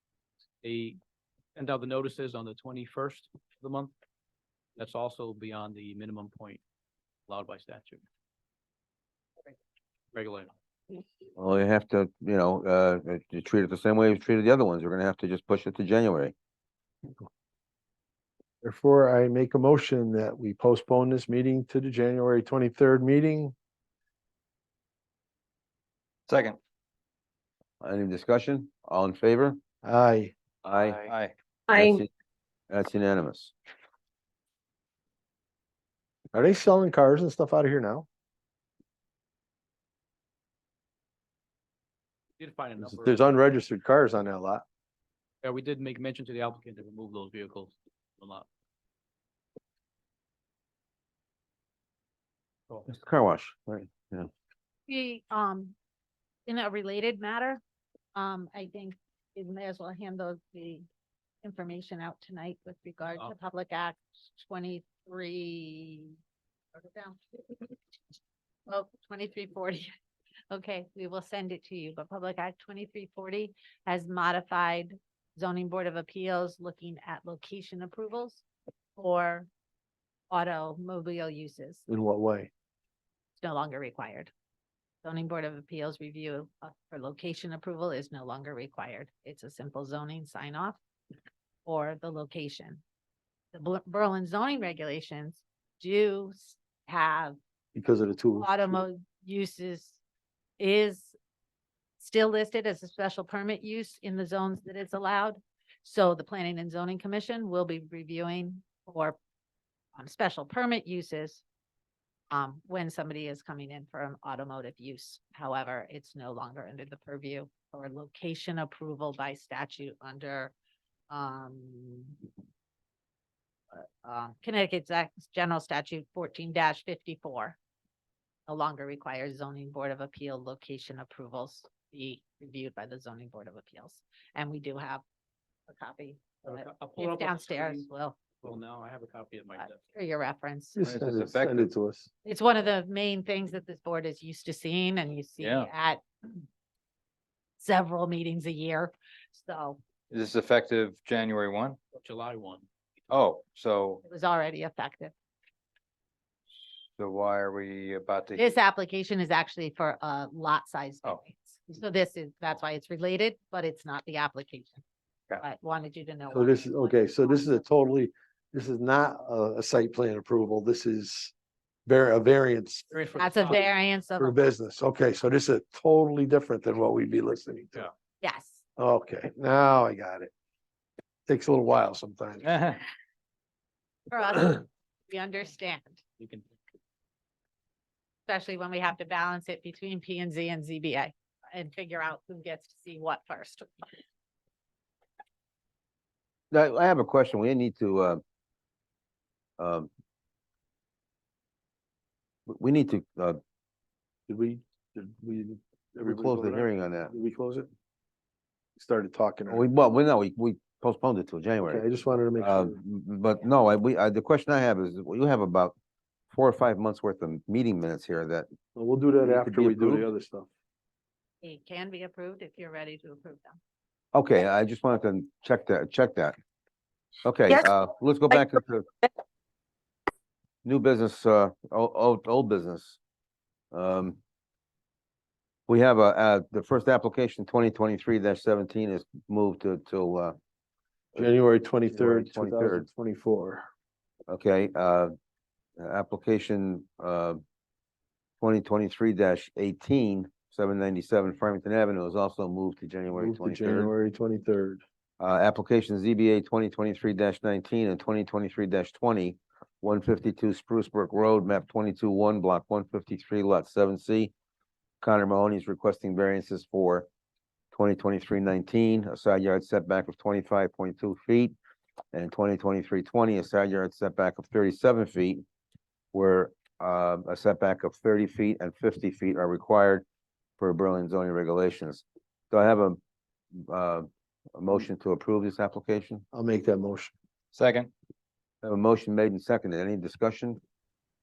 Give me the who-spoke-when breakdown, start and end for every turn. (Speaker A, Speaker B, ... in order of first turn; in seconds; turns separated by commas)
Speaker A: 0.6-1.0, Speaker A: 1.5-3.9, Speaker A: 4.8-6.6, Speaker A: 7.3-8.0, Speaker A: 10.1-10.5, Speaker B: 11.4-16.3, Speaker C: 18.6-23.5, Speaker D: 26.3-26.6, Speaker B: 27.8-29.6, Speaker C: 29.8-30.3, Speaker B: 30.6-31.1, Speaker D: 31.1-31.3, Speaker B: 31.7-32.1, Speaker B: 32.7-33.5, Speaker C: 36.3-38.0, Speaker A: 42.4-43.3, Speaker C: 42.8-44.6, Speaker A: 45.4-48.5, Speaker B: 52.9-54.3, Speaker E: 54.9-55.7, Speaker E: 56.5-57.6, Speaker E: 58.1-60.9, Speaker E: 61.4-66.2, Speaker E: 66.7-67.7, Speaker E: 68.7-69.9, Speaker E: 70.5-78.4, Speaker E: 79.0-79.5, Speaker E: 80.3-81.8, Speaker C: 81.9-82.5, Speaker E: 83.4-84.3, Speaker E: 85.0-90.8, Speaker E: 91.6-92.8, Speaker E: 93.5-97.4, Speaker C: 97.7-98.8, Speaker E: 98.4-100.0, Speaker E: 100.6-101.2, Speaker E: 102.0-109.2, Speaker E: 109.9-111.4, Speaker E: 112.3-120.5, Speaker E: 121.1-122.2, Speaker E: 123.7-127.6, Speaker E: 128.5-135.0, Speaker E: 135.7-138.2, Speaker A: 136.4-139.8, Speaker E: 139.6-140.8, Speaker C: 140.8-142.1, Speaker D: 140.8-141.7, Speaker E: 142.2-146.0, Speaker D: 145.4-145.7, Speaker E: 147.6-149.8, Speaker D: 150.1-151.8, Speaker A: 152.0-152.7, Speaker D: 153.1-154.0, Speaker E: 154.0-155.1, Speaker D: 156.9-158.5, Speaker E: 158.3-164.8, Speaker E: 165.4-167.6, Speaker C: 166.3-171.3, Speaker C: 171.8-172.9, Speaker A: 172.9-173.7, Speaker E: 173.1-174.4, Speaker C: 174.2-177.9, Speaker E: 178.2-178.6, Speaker C: 178.8-180.3, Speaker C: 181.3-182.5, Speaker D: 182.4-182.8, Speaker E: 184.1-186.0, Speaker E: 188.3-193.8, Speaker B: 196.5-198.2, Speaker B: 199.6-199.9, Speaker B: 202.5-203.4, Speaker C: 204.3-207.7, Speaker B: 206.0-207.1, Speaker C: 208.8-209.7, Speaker B: 209.5-211.8, Speaker C: 211.6-212.8, Speaker B: 212.4-215.8, Speaker B: 216.3-218.5, Speaker C: 218.7-220.5, Speaker B: 219.2-220.1, Speaker E: 221.4-223.6, Speaker B: 224.1-226.3, Speaker B: 227.2-228.9, Speaker B: 230.6-233.0, Speaker B: 233.7-234.2, Speaker B: 235.7-240.3, Speaker C: 241.2-243.6, Speaker B: 241.9-242.8, Speaker B: 244.3-245.1, Speaker B: 245.8-247.4, Speaker B: 248.4-253.9, Speaker C: 253.1-254.8, Speaker B: 255.2-264.3, Speaker B: 265.0-267.1, Speaker B: 267.7-271.5, Speaker B: 272.1-275.4, Speaker B: 276.1-280.1, Speaker B: 280.6-283.0, Speaker B: 283.6-286.2, Speaker C: 286.3-287.1, Speaker D: 287.5-287.9, Speaker B: 288.6-290.6